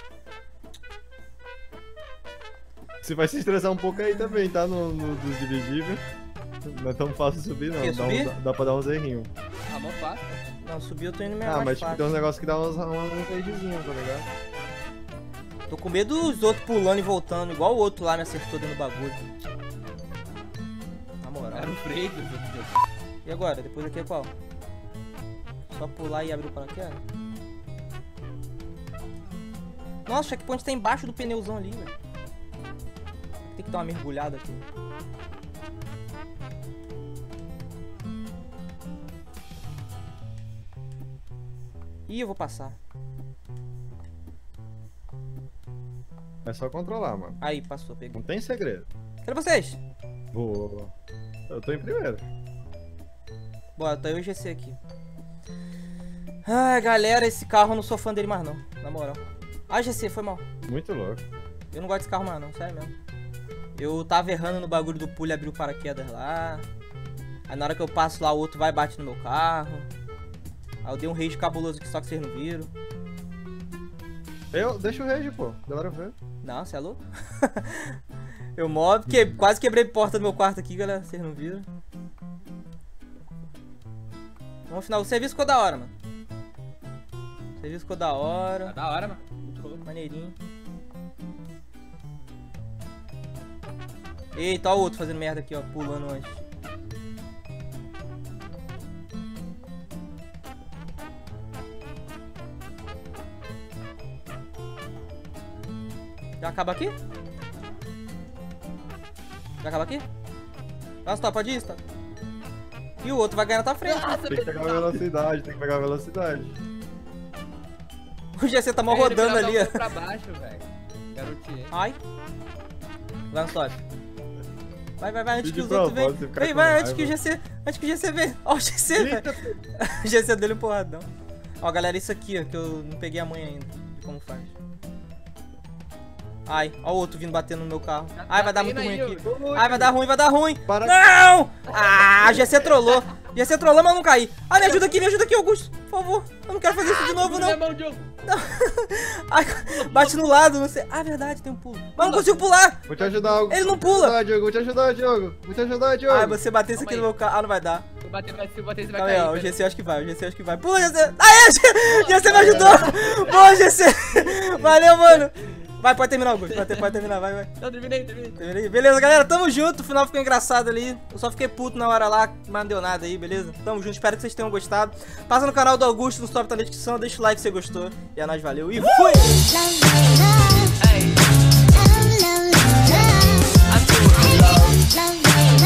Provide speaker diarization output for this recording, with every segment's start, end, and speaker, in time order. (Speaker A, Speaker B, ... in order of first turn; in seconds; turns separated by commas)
Speaker A: 3.0-6.0, Speaker A: 6.6-9.3, Speaker B: 7.8-8.3, Speaker C: 9.7-10.4, Speaker B: 10.6-12.1, Speaker A: 11.4-14.3, Speaker B: 15.7-19.2, Speaker B: 21.2-21.8, Speaker C: 21.5-22.8, Speaker B: 23.2-24.3, Speaker B: 25.7-27.0, Speaker B: 30.1-31.9, Speaker B: 33.4-34.6, Speaker B: 42.1-42.8, Speaker A: 46.4-47.4, Speaker B: 47.4-48.2, Speaker A: 48.1-48.9, Speaker B: 49.2-49.8, Speaker A: 50.3-50.9, Speaker A: 51.5-52.2, Speaker B: 53.8-54.8, Speaker B: 56.5-60.4, Speaker A: 60.7-61.2, Speaker B: 61.7-62.9, Speaker B: 63.8-66.7, Speaker B: 67.5-69.9, Speaker B: 70.8-72.7, Speaker A: 74.5-76.1, Speaker B: 76.4-78.0, Speaker B: 78.5-81.7, Speaker B: 84.7-85.9, Speaker B: 87.6-88.7, Speaker C: 88.6-89.8, Speaker B: 89.8-90.3, Speaker B: 94.3-96.4, Speaker B: 106.4-106.9, Speaker B: 109.6-110.0, Speaker B: 111.0-111.8, Speaker B: 113.0-114.1, Speaker C: 113.8-115.0, Speaker A: 114.3-116.6, Speaker B: 118.3-119.8, Speaker C: 118.9-121.7, Speaker B: 121.7-122.0, Speaker B: 123.3-123.8, Speaker B: 125.0-131.1, Speaker A: 125.4-127.2, Speaker A: 128.9-129.6, Speaker B: 131.6-134.5, Speaker B: 136.4-147.6, Speaker C: 138.2-139.3, Speaker A: 139.2-139.9, Speaker A: 140.7-141.0, Speaker C: 141.7-143.0, Speaker C: 144.6-145.0, Speaker C: 146.8-148.1, Speaker B: 148.2-152.9, Speaker C: 149.6-150.4, Speaker C: 152.0-152.4, Speaker A: 152.9-156.4, Speaker C: 152.9-153.5, Speaker B: 153.5-154.2, Speaker B: 156.1-157.8, Speaker C: 156.7-157.1, Speaker C: 158.0-159.6, Speaker B: 158.9-167.5, Speaker C: 161.8-163.6, Speaker A: 162.3-162.8, Speaker C: 164.3-165.7, Speaker C: 166.4-167.1, Speaker C: 167.6-168.4, Speaker B: 168.4-179.4, Speaker C: 180.8-181.2, Speaker C: 183.7-184.9